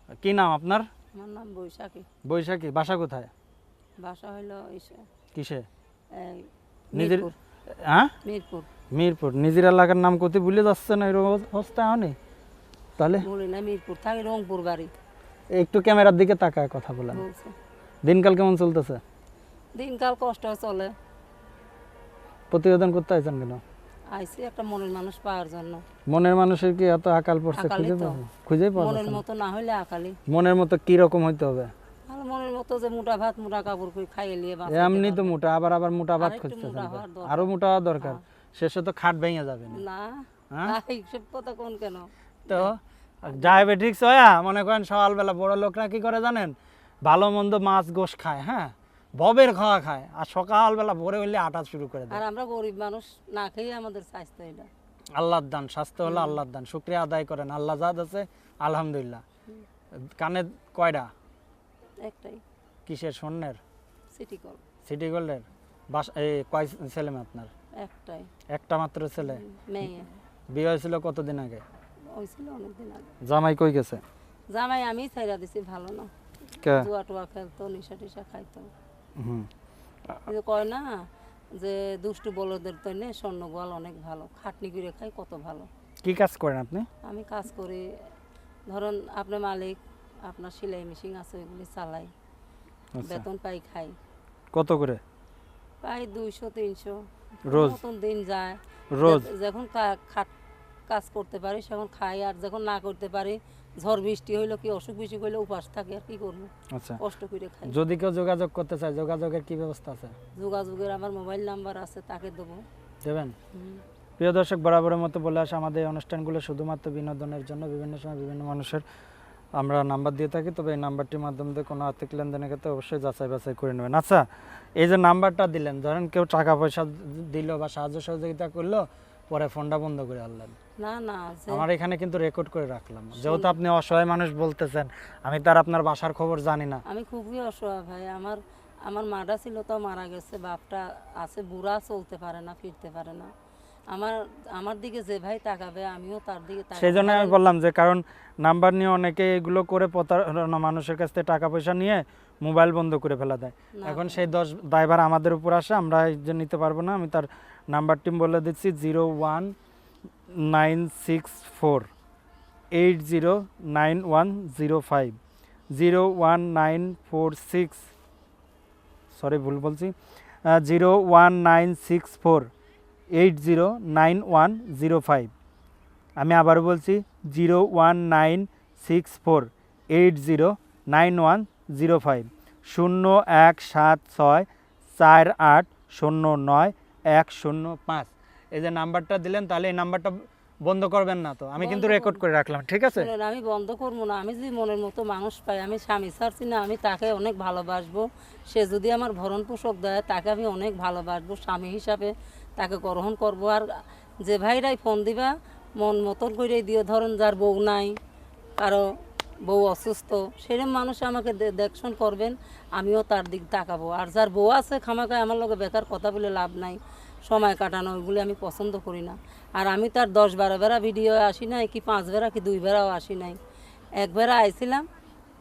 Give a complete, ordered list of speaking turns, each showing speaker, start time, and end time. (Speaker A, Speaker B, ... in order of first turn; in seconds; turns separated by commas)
Speaker A: 0.2-0.9, Speaker B: 1.1-2.1, Speaker A: 2.2-3.3, Speaker B: 4.0-5.0, Speaker A: 5.3-5.7, Speaker B: 6.1-7.3, Speaker A: 7.0-8.1, Speaker B: 8.2-8.7, Speaker A: 8.9-12.2, Speaker A: 13.0-13.3, Speaker B: 13.2-14.9, Speaker A: 15.5-17.2, Speaker B: 17.1-17.6, Speaker A: 18.0-19.0, Speaker B: 19.8-20.9, Speaker A: 22.5-23.6, Speaker B: 24.1-25.8, Speaker A: 26.1-29.2, Speaker B: 27.5-28.2, Speaker B: 28.8-30.2, Speaker A: 30.3-31.7, Speaker B: 32.1-35.4, Speaker A: 34.7-39.8, Speaker B: 36.2-38.2, Speaker B: 39.7-42.7, Speaker A: 40.5-40.8, Speaker A: 42.5-52.2, Speaker B: 43.3-43.7, Speaker B: 52.1-54.7, Speaker A: 55.2-59.2, Speaker B: 56.0-56.4, Speaker A: 60.1-61.1, Speaker B: 62.0-62.4, Speaker A: 62.9-63.6, Speaker B: 64.1-64.6, Speaker A: 64.8-67.5, Speaker B: 67.8-68.3, Speaker A: 68.5-69.4, Speaker B: 69.2-70.1, Speaker A: 70.5-71.6, Speaker B: 72.1-73.1, Speaker A: 73.2-74.0, Speaker B: 74.5-76.1, Speaker A: 76.6-76.9, Speaker B: 76.7-78.7, Speaker A: 79.2-79.5, Speaker B: 80.3-81.0, Speaker B: 81.6-85.7, Speaker A: 86.0-86.9, Speaker B: 87.0-87.9, Speaker B: 88.7-92.1, Speaker A: 92.9-93.2, Speaker B: 93.0-94.0, Speaker A: 94.5-95.0, Speaker B: 95.8-100.3, Speaker A: 97.5-97.8, Speaker A: 98.9-99.3, Speaker B: 100.9-107.8, Speaker A: 106.7-107.0, Speaker A: 107.7-110.2, Speaker B: 110.4-112.6, Speaker A: 113.0-113.4, Speaker B: 113.5-113.8, Speaker A: 114.2-118.8, Speaker A: 119.5-124.2, Speaker A: 124.8-130.6, Speaker B: 130.8-131.7, Speaker A: 131.5-136.8, Speaker B: 133.2-133.5, Speaker B: 136.8-143.3, Speaker B: 143.9-147.4, Speaker A: 146.8-159.5, Speaker B: 153.8-154.3, Speaker A: 160.3-161.9, Speaker A: 162.7-165.2, Speaker A: 165.7-167.9, Speaker A: 169.1-169.9, Speaker A: 170.4-172.5, Speaker A: 173.1-175.3, Speaker A: 176.2-193.1, Speaker B: 191.6-192.2, Speaker B: 192.9-207.9, Speaker B: 208.6-208.9, Speaker B: 209.4-223.4, Speaker B: 224.0-224.9